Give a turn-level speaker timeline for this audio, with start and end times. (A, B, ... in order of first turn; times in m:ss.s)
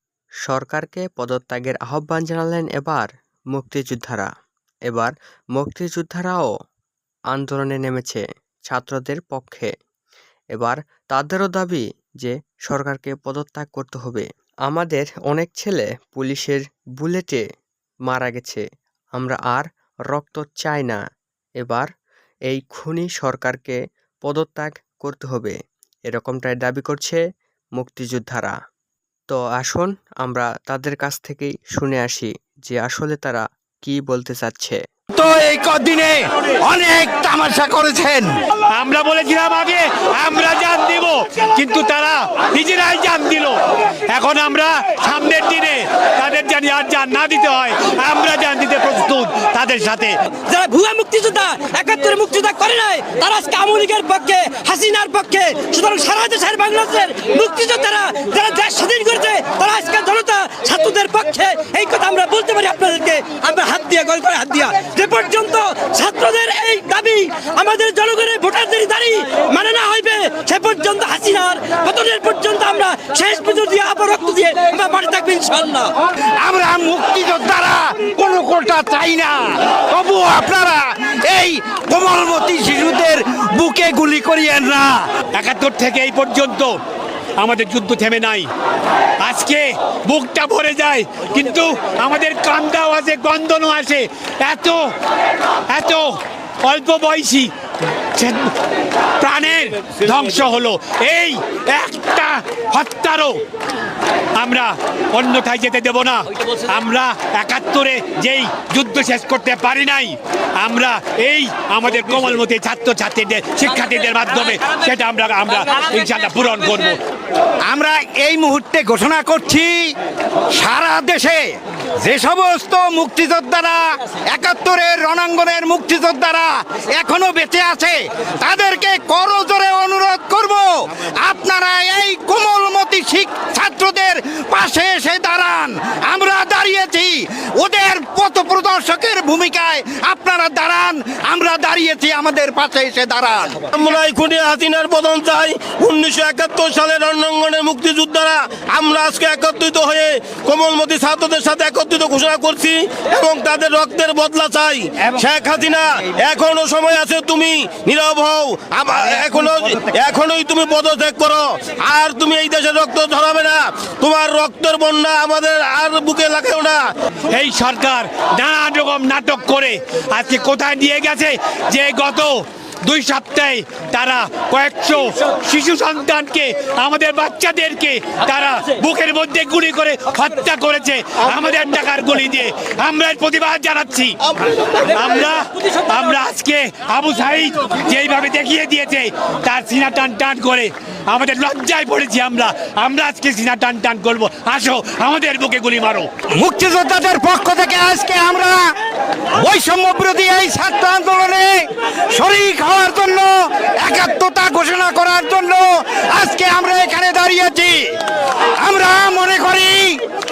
0:00.4-0:04.3 A
0:04.9-0:06.5 A
0:07.3-0:09.7 A
0:10.5-0:17.4 A
0:18.0-0:18.6 A
0:19.2-0:21.0 A
0:21.6-0:21.9 A
0:22.5-0:25.6 A
0:26.1-0:27.2 A
0:27.8-0:28.6 A
0:29.3-0:34.8 A
0:35.1-0:38.4 B
0:38.7-0:43.6 C
0:44.1-0:50.2 C
0:50.5-1:15.9 D
1:16.4-1:25.1 B
1:25.3-1:26.8 C
1:27.4-1:28.5 C
1:29.2-1:34.9 C
1:35.7-1:37.5 C
1:38.2-1:38.5 C
1:39.2-1:43.4 C
1:44.4-1:57.0 C
1:57.7-1:59.9 B
2:00.5-2:23.6 B
2:23.7-2:46.8 E
2:47.3-3:04.2 C
3:04.9-3:16.1 C
3:16.3-3:18.8 B
3:19.4-3:28.0 B
3:28.6-3:30.0 B